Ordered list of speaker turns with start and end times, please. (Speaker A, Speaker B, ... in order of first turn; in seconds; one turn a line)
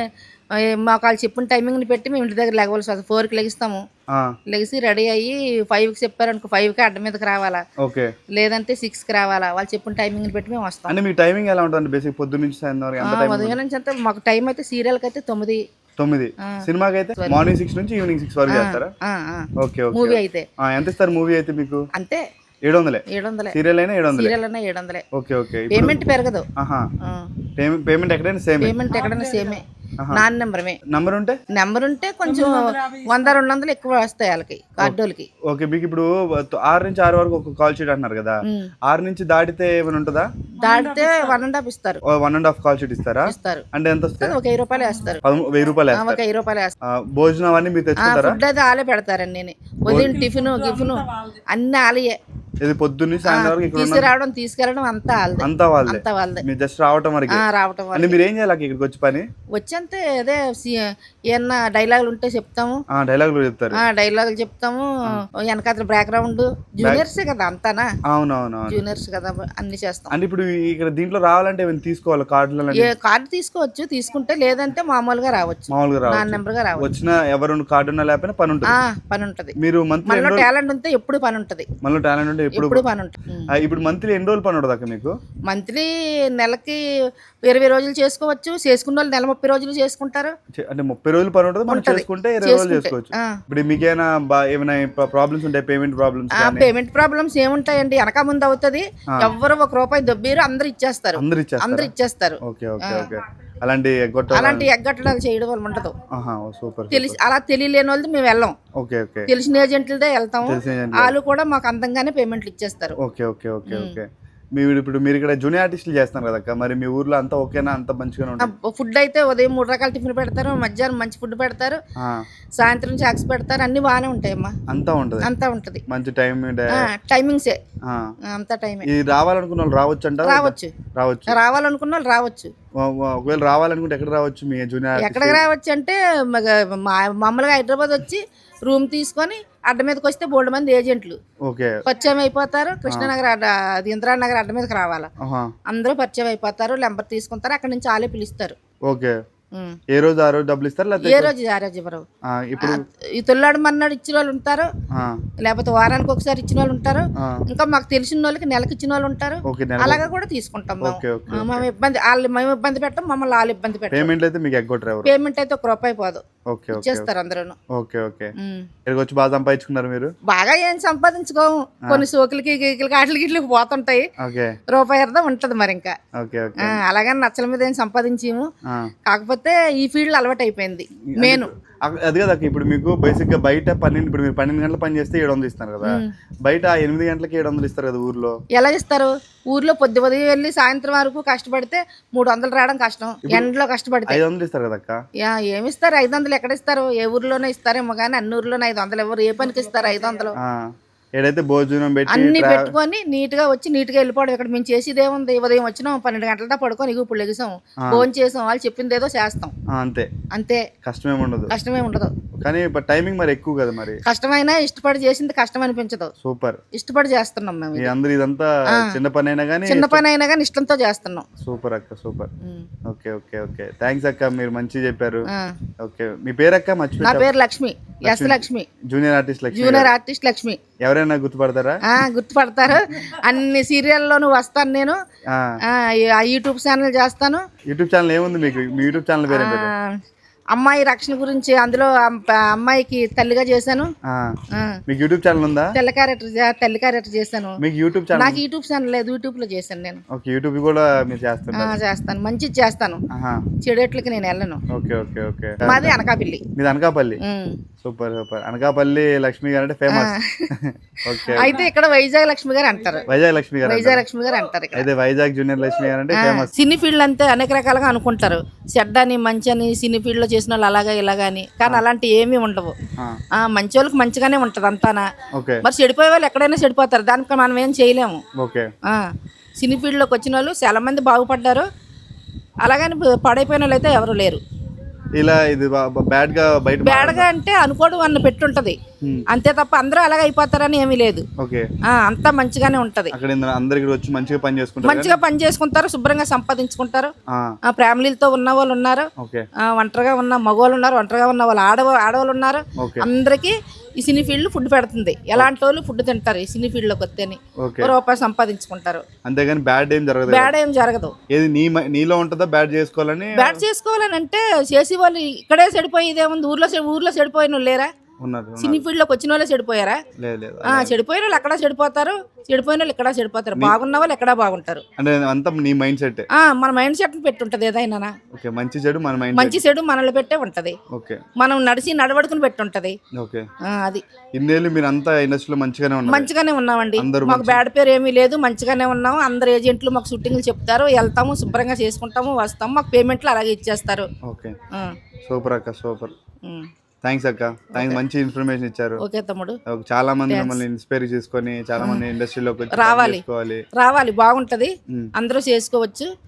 Speaker A: 0.6-3.8
Speaker A: 4.5-7.6
Speaker B: 7.8-8.1
Speaker A: 8.3-10.9
Speaker B: 10.9-13.6
Speaker A: 13.0-15.6
Speaker B: 16.0-18.9
Speaker A: 18.5-20.5
Speaker B: 19.6-21.8
Speaker A: 21.9-22.2
Speaker B: 22.7-24.3
Speaker A: 23.1-23.6
Speaker A: 24.1-25.1
Speaker B: 25.1-26.0
Speaker A: 25.7-26.5
Speaker B: 26.6-26.9
Speaker A: 27.0-27.3
Speaker B: 27.6-28.8
Speaker A: 28.6-30.8
Speaker B: 30.8-31.4
Speaker A: 31.5-35.3
Speaker B: 35.5-40.3
Speaker A: 38.5-38.7
Speaker A: 40.6-42.0
Speaker B: 42.0-44.4
Speaker A: 43.2-43.7
Speaker A: 44.2-45.2
Speaker B: 45.2-46.2
Speaker A: 45.9-46.8
Speaker B: 46.9-48.4
Speaker A: 48.0-52.2
Speaker B: 49.9-50.2
Speaker B: 52.6-54.1
Speaker A: 53.2-56.4
Speaker B: 55.4-59.3
Speaker A: 57.3-58.2
Speaker A: 59.5-62.8
Speaker B: 62.9-63.8
Speaker A: 63.7-67.9
Speaker B: 68.1-68.8
Speaker A: 68.7-70.1
Speaker B: 70.1-72.9
Speaker A: 72.7-76.9
Speaker B: 75.7-78.7
Speaker A: 78.7-81.7
Speaker B: 79.6-80.5
Speaker B: 81.8-82.8
Speaker A: 82.5-83.5
Speaker B: 83.5-85.1
Speaker A: 85.5-86.8
Speaker A: 87.4-90.3
Speaker B: 90.6-96.7
Speaker A: 91.7-93.4
Speaker A: 96.3-103.2
Speaker B: 101.2-101.9
Speaker B: 102.4-104.7
Speaker A: 104.3-105.9
Speaker B: 106.1-107.2
Speaker A: 106.9-108.6
Speaker B: 108.8-109.3
Speaker A: 109.3-113.0
Speaker B: 110.4-111.1
Speaker B: 113.0-118.5
Speaker A: 113.7-114.0
Speaker A: 118.4-121.8
Speaker B: 122.0-122.2
Speaker A: 122.6-124.6
Speaker B: 124.7-125.3
Speaker A: 125.2-125.8
Speaker B: 125.9-126.9
Speaker A: 126.7-127.6
Speaker B: 127.8-128.1
Speaker A: 128.3-128.9
Speaker B: 128.8-131.4
Speaker A: 130.2-130.7
Speaker A: 131.3-132.5
Speaker B: 132.8-135.4
Speaker A: 135.0-141.2
Speaker B: 141.5-141.8
Speaker A: 141.8-145.1
Speaker B: 145.2-145.5
Speaker A: 145.7-148.6
Speaker B: 148.9-149.2
Speaker A: 149.5-149.8
Speaker B: 149.9-151.3
Speaker A: 151.0-152.0
Speaker B: 152.3-152.8
Speaker A: 152.6-154.7
Speaker B: 154.9-155.2
Speaker A: 155.4-164.1
Speaker B: 157.2-157.4
Speaker B: 159.5-160.0
Speaker B: 160.8-161.7
Speaker B: 163.9-165.1
Speaker A: 165.0-167.6
Speaker B: 166.5-167.1
Speaker B: 167.7-168.3
Speaker A: 168.4-168.7
Speaker B: 168.8-170.1
Speaker A: 170.3-174.1
Speaker B: 174.2-174.6
Speaker A: 174.7-176.0
Speaker B: 176.2-176.8
Speaker A: 176.6-178.5
Speaker A: 179.1-181.5
Speaker B: 181.1-188.3
Speaker A: 185.8-186.1
Speaker A: 188.5-194.2
Speaker B: 194.1-195.0
Speaker A: 195.2-200.4
Speaker B: 200.3-202.7
Speaker A: 202.1-209.5
Speaker B: 209.7-210.1
Speaker A: 210.3-210.7
Speaker B: 210.8-211.5
Speaker A: 211.5-212.2
Speaker B: 212.4-214.0
Speaker A: 214.0-216.1
Speaker B: 216.2-216.6
Speaker A: 216.7-217.9
Speaker B: 217.8-220.0
Speaker A: 218.7-219.0
Speaker A: 219.7-221.2
Speaker B: 221.4-222.3
Speaker A: 222.4-222.7
Speaker B: 222.8-225.2
Speaker A: 225.3-225.6
Speaker B: 225.8-227.3
Speaker A: 227.0-228.7
Speaker B: 228.0-229.9
Speaker A: 229.5-230.6
Speaker B: 230.8-231.8
Speaker A: 231.8-235.0
Speaker B: 235.3-235.6
Speaker A: 235.7-237.4
Speaker B: 237.7-239.7
Speaker A: 239.3-239.9
Speaker A: 240.5-243.9
Speaker B: 244.0-244.3
Speaker A: 244.5-244.8
Speaker B: 244.9-245.8
Speaker A: 245.7-247.6
Speaker B: 247.6-248.4
Speaker A: 248.2-250.0
Speaker B: 250.1-251.7
Speaker A: 251.5-253.0
Speaker B: 253.1-253.4
Speaker A: 253.6-254.6
Speaker B: 254.7-256.0
Speaker A: 255.7-256.4
Speaker B: 256.5-257.2
Speaker A: 257.2-257.6
Speaker B: 257.8-261.6
Speaker A: 259.9-260.5
Speaker A: 261.2-263.1
Speaker B: 263.1-264.0
Speaker A: 263.6-264.9
Speaker B: 264.7-266.5
Speaker A: 266.1-272.8
Speaker A: 273.4-275.1
Speaker B: 275.4-275.6
Speaker A: 275.6-278.2
Speaker B: 278.4-278.7
Speaker A: 279.6-281.7
Speaker A: 282.6-284.4
Speaker B: 285.2-287.2
Speaker A: 286.8-288.8
Speaker A: 289.3-291.2
Speaker B: 291.4-291.7
Speaker A: 291.9-293.1
Speaker B: 293.1-295.2
Speaker A: 294.8-297.1
Speaker B: 297.3-297.5
Speaker A: 297.6-299.1
Speaker B: 299.2-299.5
Speaker A: 299.6-309.0
Speaker B: 302.8-303.1
Speaker B: 307.6-307.9
Speaker B: 309.2-310.5
Speaker A: 310.2-311.1
Speaker B: 311.3-313.6
Speaker A: 313.4-317.9
Speaker B: 318.2-318.9
Speaker A: 318.6-320.0
Speaker B: 320.2-320.9
Speaker A: 320.6-324.9
Speaker B: 325.0-326.3
Speaker A: 326.3-328.1
Speaker B: 328.3-329.6
Speaker A: 329.3-330.8
Speaker B: 330.9-331.2
Speaker A: 331.4-333.0
Speaker B: 333.1-333.5
Speaker A: 333.6-334.0
Speaker B: 334.4-336.3
Speaker A: 336.0-344.1
Speaker B: 337.0-337.6
Speaker B: 344.2-344.5
Speaker A: 344.7-345.0
Speaker B: 345.2-346.1
Speaker B: 347.0-349.0
Speaker A: 347.8-348.0
Speaker A: 349.0-349.6
Speaker B: 349.6-353.6
Speaker A: 350.3-350.6
Speaker A: 351.8-352.0
Speaker A: 352.7-356.1